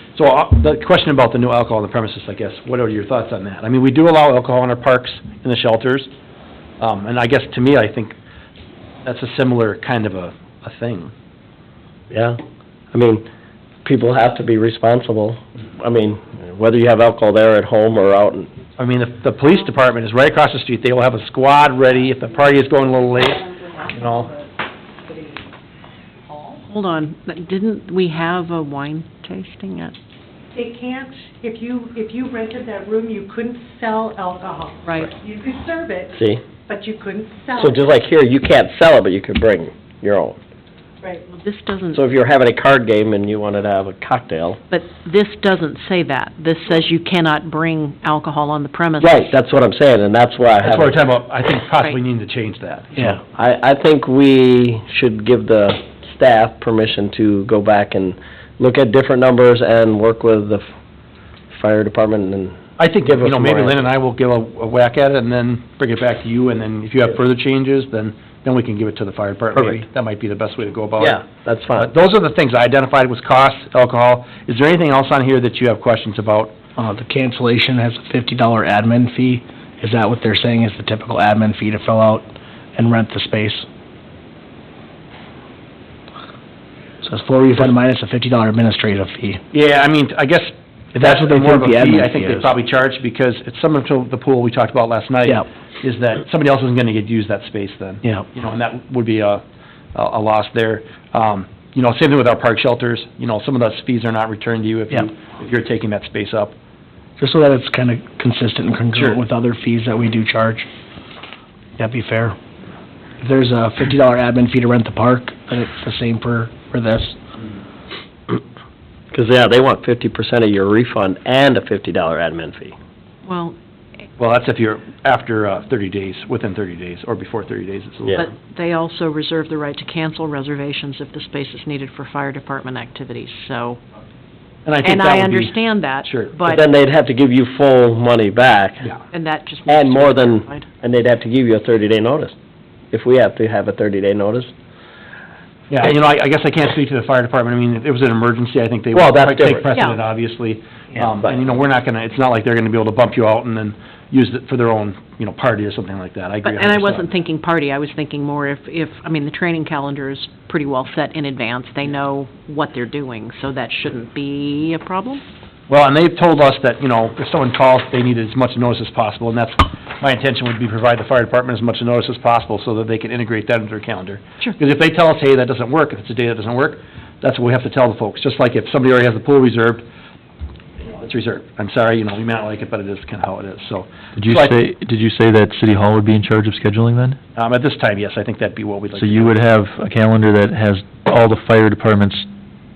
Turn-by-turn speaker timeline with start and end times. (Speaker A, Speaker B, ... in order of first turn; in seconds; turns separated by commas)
Speaker A: 0.1-6.1, Speaker A: 6.8-8.2, Speaker A: 9.0-11.1, Speaker B: 12.1-12.4, Speaker B: 12.9-13.2, Speaker B: 13.8-18.5, Speaker A: 18.8-24.3, Speaker C: 23.2-24.4, Speaker C: 25.0-25.4, Speaker C: 26.3-26.6, Speaker D: 26.7-29.9, Speaker C: 30.5-36.1, Speaker D: 34.8-35.1, Speaker B: 36.2-36.4, Speaker C: 36.7-37.8, Speaker B: 37.5-40.4, Speaker D: 41.3-42.0, Speaker B: 41.9-44.6, Speaker D: 44.7-49.3, Speaker B: 49.0-51.0, Speaker A: 50.6-53.1, Speaker B: 53.3-60.6, Speaker B: 61.5-63.8, Speaker A: 62.8-71.2, Speaker B: 69.5-69.8, Speaker B: 71.0-71.9, Speaker A: 71.8-76.5, Speaker E: 76.8-83.7, Speaker E: 87.0-89.4, Speaker A: 89.5-99.4, Speaker E: 91.0-92.5, Speaker A: 99.9-106.5, Speaker E: 107.2-110.7, Speaker E: 111.8-112.4, Speaker E: 113.2-117.2, Speaker B: 119.1-122.7, Speaker D: 123.2-123.6, Speaker A: 124.2-128.3, Speaker D: 128.2-133.8, Speaker A: 134.7-136.3, Speaker D: 134.8-136.6, Speaker B: 136.4-138.9, Speaker D: 139.1-140.7, Speaker B: 139.7-142.3, Speaker B: 142.9-144.5, Speaker A: 145.7-157.1, Speaker B: 148.9-149.6, Speaker D: 156.4-165.2, Speaker A: 165.7-179.8, Speaker A: 180.8-184.5, Speaker F: 184.2-187.2, Speaker A: 187.3-189.3, Speaker F: 188.9-192.3